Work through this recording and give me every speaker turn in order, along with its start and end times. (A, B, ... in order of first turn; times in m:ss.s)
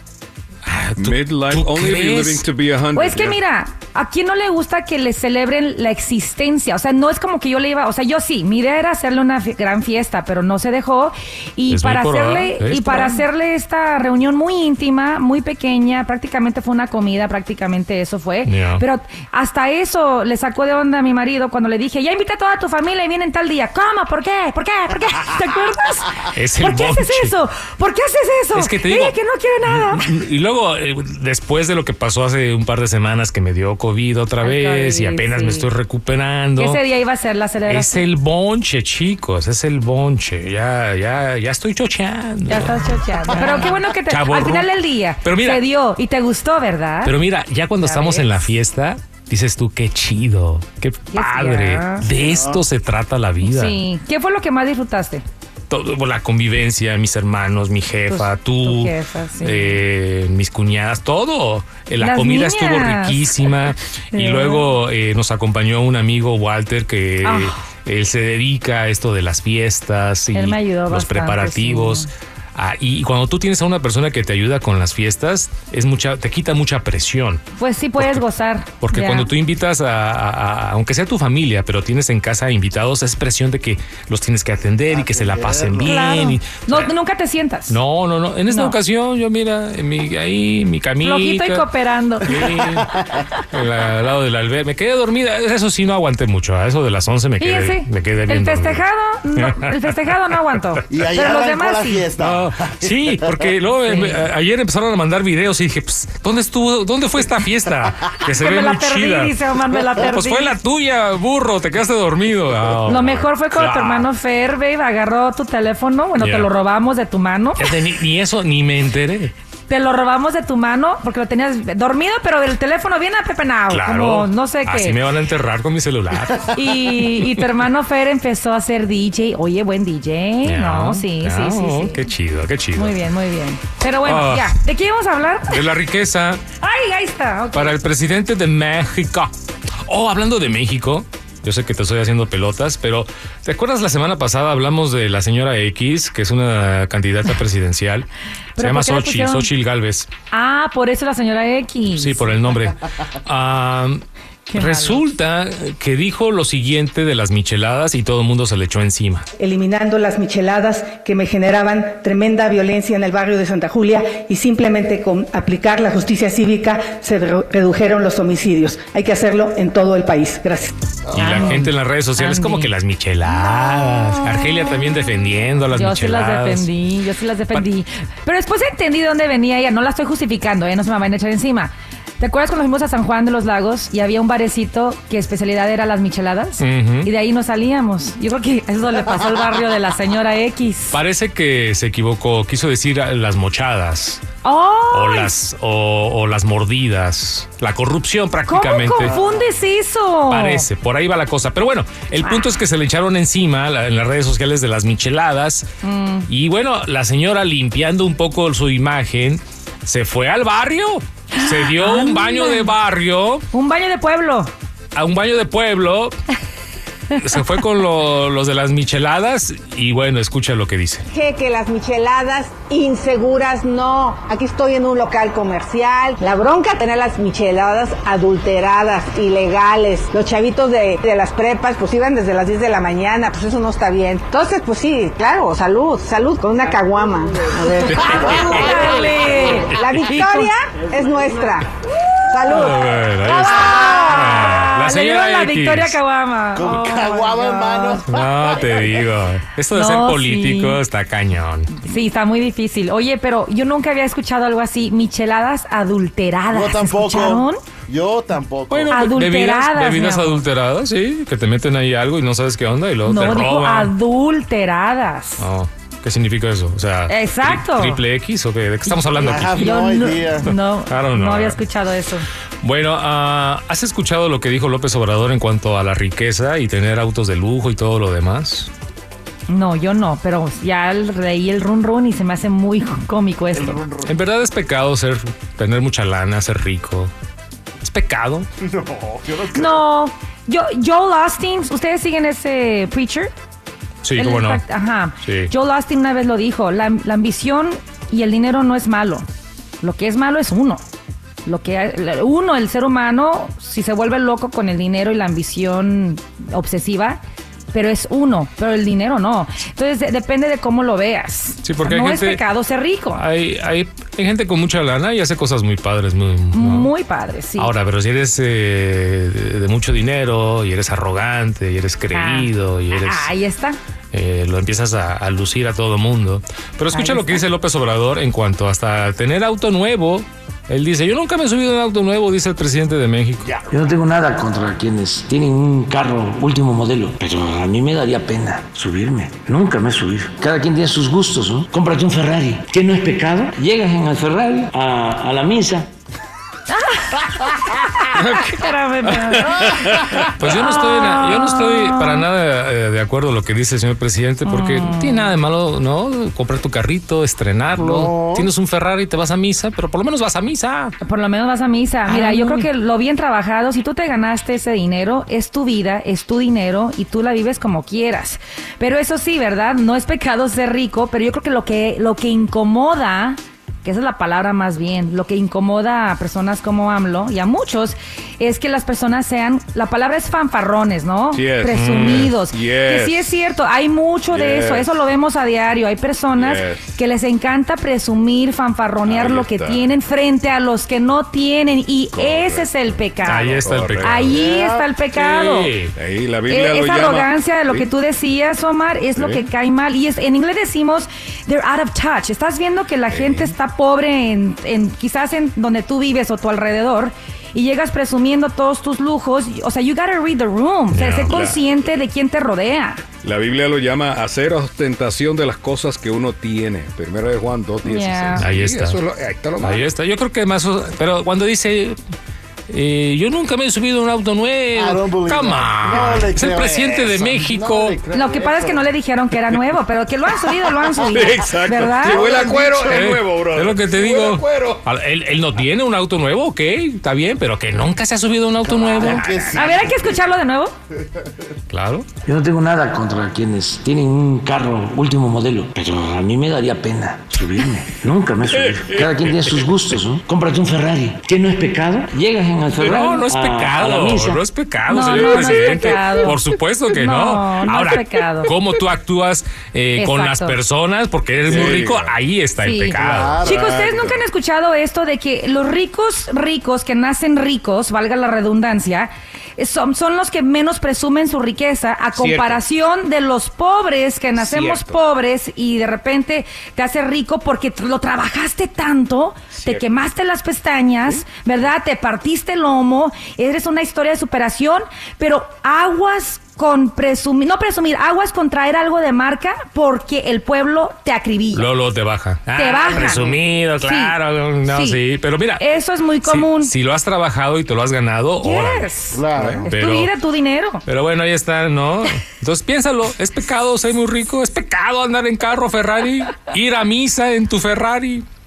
0:00.6-0:02.4 A
0:01.0-0:03.4 B
0:02.9-0:30.1 C
0:11.7-0:13.2 A
0:18.4-0:18.8 A
0:26.3-0:27.3 A
0:28.5-0:36.8 A
0:34.4-0:35.7 C
0:36.6-0:38.0 C
0:37.7-0:45.6 A
0:42.5-0:47.2 C
0:47.0-0:53.8 A
0:47.8-0:48.5 C
0:51.1-0:52.1 C
0:52.2-0:52.6 D
0:53.4-0:55.2 C
0:55.7-1:17.4 A
0:58.1-0:59.8 C
1:02.0-1:03.3 C
1:04.1-1:04.7 C
1:07.2-1:07.6 C
1:10.3-1:12.1 C
1:17.6-1:19.3 C
1:18.0-1:18.2 A
1:18.8-1:26.9 A
1:24.9-1:26.0 D
1:25.8-1:27.8 C
1:27.7-1:31.7 A
1:28.5-1:28.8 C
1:31.0-1:32.6 C
1:32.2-1:38.8 A
1:32.3-1:33.1 D
1:37.4-1:42.1 C
1:39.4-1:39.7 A
1:40.9-1:43.4 D
1:42.2-1:54.1 A
1:43.8-1:44.2 C
1:48.4-1:50.6 C
1:52.8-1:57.7 C
1:56.2-1:56.5 A
1:57.6-1:59.3 A
1:59.7-2:05.0 C
2:03.7-2:06.6 A
2:06.5-2:12.0 C
2:10.4-2:12.9 A
2:12.7-2:15.6 C
2:14.0-2:14.6 A
2:15.5-2:16.4 A
2:16.6-2:17.8 C
2:17.5-2:19.3 A
2:19.8-2:28.1 A
2:28.6-2:29.5 C
2:28.6-2:30.1 A
2:30.3-2:32.4 C
2:31.9-2:39.2 A
2:34.5-2:35.1 C
2:39.4-2:51.4 E
2:51.1-2:56.7 A
2:51.2-2:52.7 C
2:55.7-3:11.0 C
3:06.6-3:07.1 A
3:10.9-3:14.2 A
3:14.4-3:15.3 C
3:14.9-3:19.2 A
3:18.5-3:20.7 C
3:19.0-3:19.5 D
3:20.3-3:25.6 A
3:25.8-3:26.3 C
3:26.3-3:33.4 A
3:31.3-3:32.7 C
3:33.5-3:34.5 C
3:34.9-3:36.1 A
3:37.1-3:41.0 A
3:41.1-4:01.7 F
3:57.8-4:00.5 C
3:57.9-3:58.9 A
3:59.6-4:00.3 A
4:02.3-4:03.6 F
4:02.4-4:06.0 A
4:03.2-4:08.0 C
4:06.5-4:08.0 D
4:08.0-4:11.7 A
4:09.7-4:10.8 C
4:11.7-4:17.6 C
4:16.5-4:19.0 D
4:18.7-4:23.9 A
4:18.9-4:20.4 C
4:23.0-4:25.4 C
4:25.4-4:29.7 A
4:27.1-4:28.0 C
4:29.1-4:30.5 D
4:29.5-4:32.3 C
4:30.4-4:31.6 A
4:32.6-4:38.7 A
4:39.5-4:43.8 C
4:43.5-4:44.2 D
4:44.0-4:47.1 A
4:47.8-4:48.5 A
4:48.6-4:49.8 D
4:49.5-4:53.3 C
4:54.0-4:54.6 A
4:54.2-4:59.2 C
4:55.2-4:55.5 A
4:59.8-5:00.8 C
5:01.4-5:07.2 C
5:07.7-5:13.2 C
5:11.6-5:12.4 A
5:13.1-5:16.9 A
5:16.5-5:17.7 C
5:17.6-5:23.3 A
5:22.1-5:23.8 C
5:24.1-5:33.6 A
5:26.9-5:27.4 C
5:33.7-5:45.9 G
5:46.7-5:52.2 C
5:48.1-5:50.3 B
5:50.4-6:01.0 A
5:54.4-5:55.4 C
5:57.7-5:58.5 D
6:01.0-6:35.7 C
6:02.1-6:02.7 A
6:21.3-6:23.3 B
6:21.7-6:22.3 A
6:24.3-6:24.9 B
6:26.3-6:26.8 B
6:29.0-6:29.9 B
6:32.1-6:32.7 B
6:33.2-6:34.6 A
6:33.4-6:34.4 B
6:34.3-6:34.8 D
6:35.1-6:35.9 A
6:36.0-6:37.9 B
6:36.5-6:53.0 C
6:39.2-6:39.4 B
6:43.1-6:43.5 B
6:50.9-6:51.4 A
6:51.3-6:51.6 B
6:53.2-6:59.9 B
6:57.8-6:58.5 C
6:58.4-6:59.0 A
6:59.6-7:02.0 A
7:02.7-7:08.0 A
7:04.7-7:08.9 D
7:08.1-7:12.9 C
7:10.9-7:14.8 B
7:12.2-7:12.7 D
7:12.7-7:19.6 A
7:18.7-7:20.3 D
7:19.0-7:19.5 B
7:19.5-7:20.7 C
7:21.7-7:22.1 A
7:22.2-7:34.4 G
7:27.8-7:29.7 B
7:32.8-7:33.1 B
7:32.8-7:43.5 A
7:34.9-7:36.4 C
7:35.1-7:36.0 B
7:36.9-7:38.5 C
7:40.0-7:40.6 C
7:41.4-7:42.2 B
7:42.6-8:11.7 C
7:43.0-7:44.1 D
7:43.1-7:44.0 B
7:52.1-7:52.6 B
7:54.4-7:55.0 B
7:59.6-7:59.8 B
8:11.5-8:15.6 A
8:12.5-8:15.0 C
8:13.0-8:13.4 D
8:15.6-8:16.7 C
8:16.2-8:20.1 A
8:18.4-8:20.8 C
8:19.1-8:19.7 D
8:19.4-8:19.6 B
8:20.8-8:28.2 A